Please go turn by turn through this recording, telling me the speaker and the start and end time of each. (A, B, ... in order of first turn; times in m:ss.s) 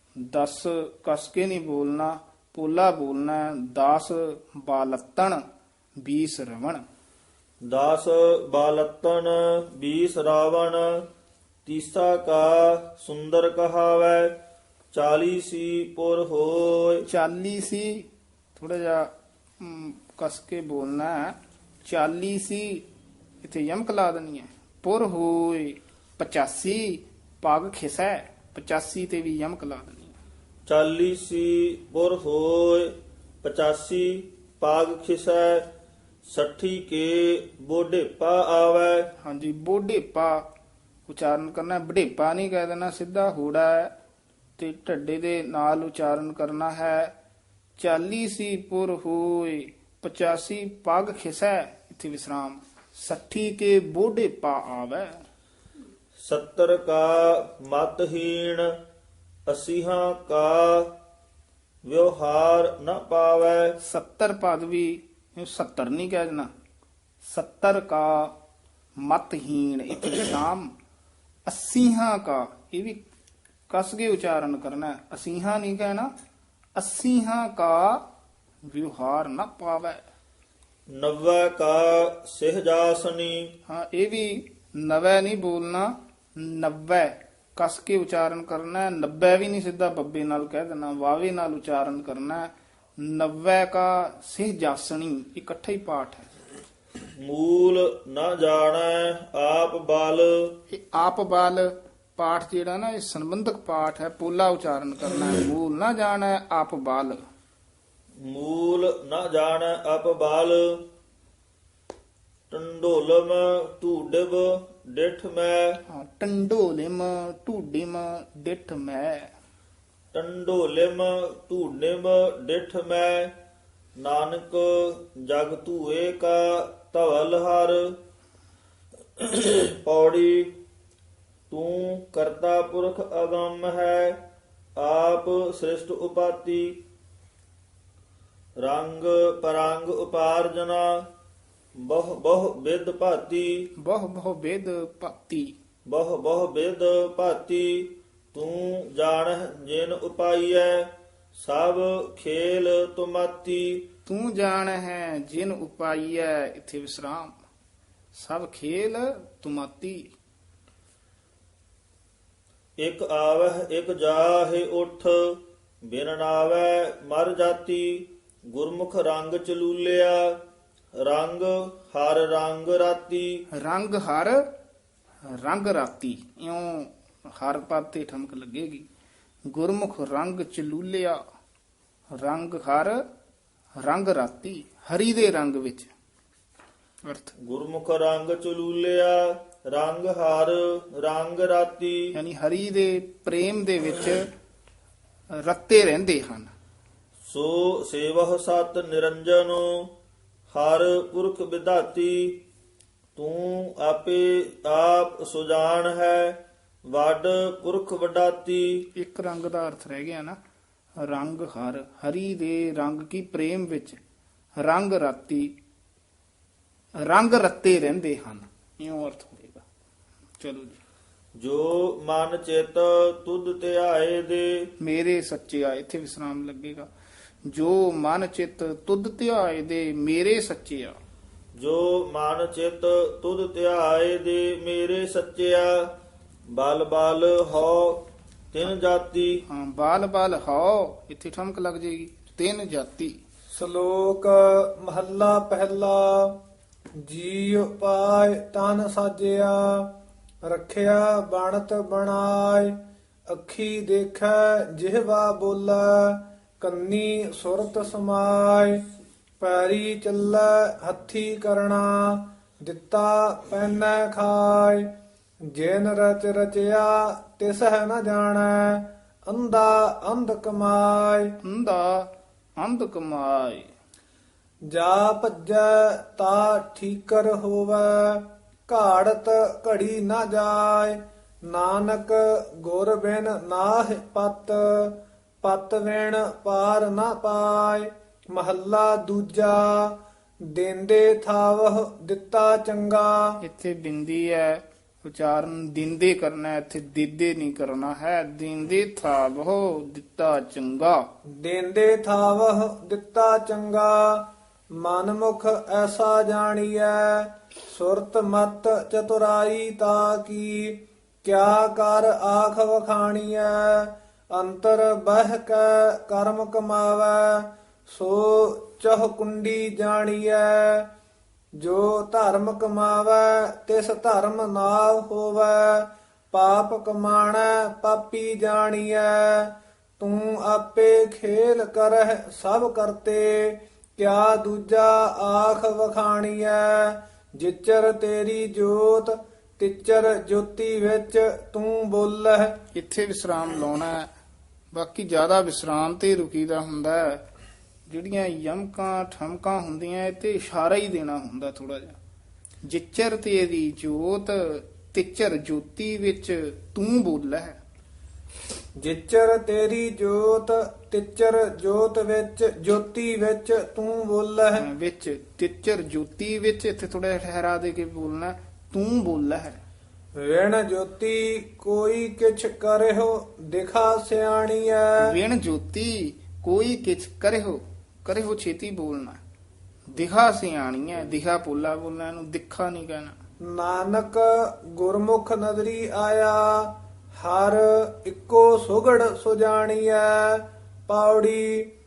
0:00.2-0:05.4 A
0:06.0-0:06.8 A
0:07.7-0:11.0 B
0:11.7-0:14.4 B
0:14.9-0:17.0 B
0:17.1-0:19.1 A
0:19.6-0:22.8 A
0:23.4-0:30.2 A
0:30.7-0:35.7 B
0:36.3-0:39.1 B
0:39.2-0:40.4 A
0:41.1-0:43.9 A
0:44.6-0:47.1 A
0:47.8-0:55.2 A
0:56.2-0:58.7 B
0:59.5-1:00.9 B
1:01.9-1:03.8 B
1:03.8-1:06.5 A
1:07.2-1:08.3 A
1:09.0-1:10.7 A
1:11.5-1:13.0 A
1:13.7-1:16.1 A
1:16.8-1:18.0 A
1:18.7-1:20.0 A
1:20.9-1:23.5 B
1:23.7-1:32.5 A
1:33.0-1:36.3 A
1:37.2-1:40.5 B
1:40.7-1:47.2 A
1:48.3-1:50.8 B
1:52.5-1:55.8 B
1:55.9-1:59.3 A
2:00.1-2:03.3 B
2:04.0-2:08.0 B
2:09.2-2:10.5 B
2:11.5-2:14.2 B
2:14.8-2:16.8 B
2:18.6-2:21.0 B
2:21.8-2:23.7 B
2:23.8-2:25.6 A
2:25.9-2:33.9 B
2:34.1-2:37.4 A
2:38.1-2:40.1 A
2:42.8-2:50.4 B
2:51.0-2:53.4 B
2:53.5-2:54.4 A
2:55.3-2:58.9 A
2:59.5-3:01.2 A
3:02.1-3:03.0 A
3:03.8-3:05.9 A
3:07.0-3:07.3 A
3:07.4-3:12.0 B
3:12.1-3:14.3 A
3:15.4-3:16.5 A
3:17.3-3:19.9 B
3:20.5-3:22.4 B
3:23.2-3:28.9 B
3:29.0-3:30.4 A
3:31.0-3:34.0 A
3:34.6-3:35.5 A
3:37.0-3:39.6 A
3:40.4-3:40.8 A
3:41.4-3:44.7 B
3:44.8-3:46.9 A
3:47.5-3:51.0 A
3:51.6-3:55.9 B
3:56.5-3:59.4 B
3:59.5-4:03.2 A
4:03.6-4:06.3 C
4:07.0-4:09.9 C
4:10.5-4:12.8 C
4:13.3-4:18.8 C
4:19.4-4:24.9 C
4:25.5-4:31.3 C
4:31.4-4:33.7 A
4:34.7-4:50.0 C
4:50.5-4:53.2 C
4:53.4-5:01.0 A
5:01.4-5:04.3 C
5:04.8-5:20.9 C
5:21.6-5:42.6 C
5:42.7-5:44.1 A
5:44.7-5:47.2 A
5:47.9-5:52.0 A
5:52.6-5:57.6 A
5:58.8-6:04.6 C
6:04.6-6:09.6 A
6:10.2-6:15.1 C
6:15.0-6:19.2 A
6:19.9-6:23.2 A
6:23.5-6:31.7 C